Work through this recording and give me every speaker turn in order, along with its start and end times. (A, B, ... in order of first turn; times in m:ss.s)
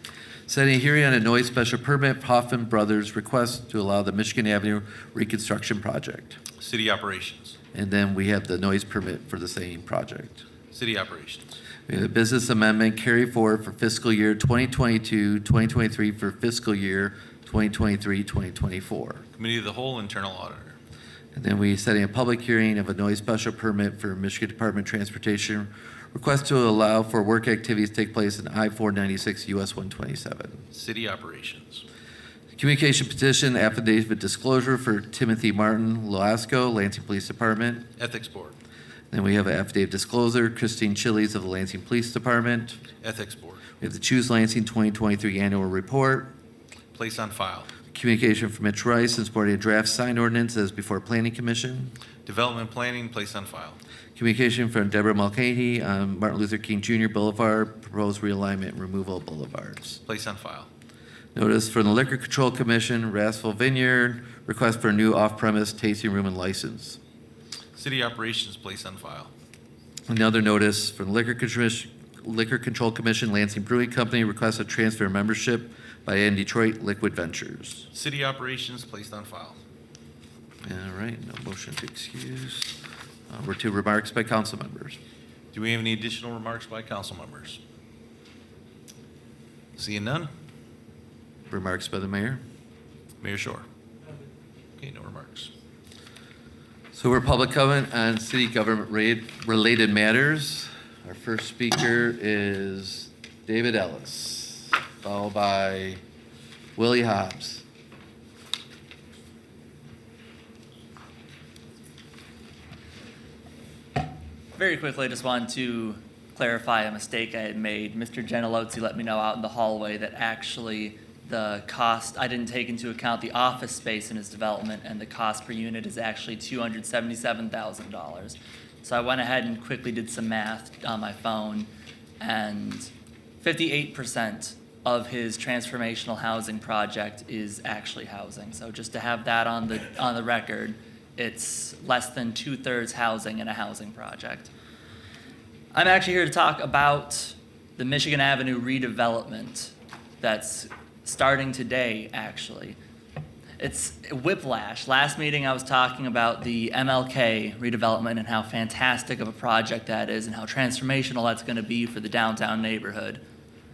0:00.5-0:06.4 A
0:06.6-0:07.6 B
0:07.7-0:10.4 A
0:10.7-0:11.6 B
0:11.9-0:19.2 A
0:19.3-0:20.8 B
0:21.4-0:30.7 A
0:30.7-0:31.8 B
0:32.6-0:37.9 A
0:38.0-0:38.6 B
0:39.1-0:42.8 A
0:43.0-0:43.6 B
0:43.8-0:46.3 A
0:46.9-0:47.7 B
0:47.9-0:51.9 A
0:52.2-0:53.8 B
0:54.2-1:00.0 A
1:00.1-1:00.7 B
1:01.4-1:07.0 A
1:07.8-1:09.3 B
1:10.1-1:17.9 A
1:17.9-1:19.6 B
1:20.6-1:22.8 A
1:23.3-1:25.0 A
1:25.5-1:27.6 B
1:29.8-1:30.3 B
1:31.5-1:32.4 A
1:33.2-1:33.7 B
1:34.8-1:35.5 B
1:36.9-1:46.0 A
1:46.8-1:47.6 A
1:54.6-2:11.7 C
2:12.2-2:24.5 C
2:25.7-2:32.8 C
2:33.6-2:43.2 C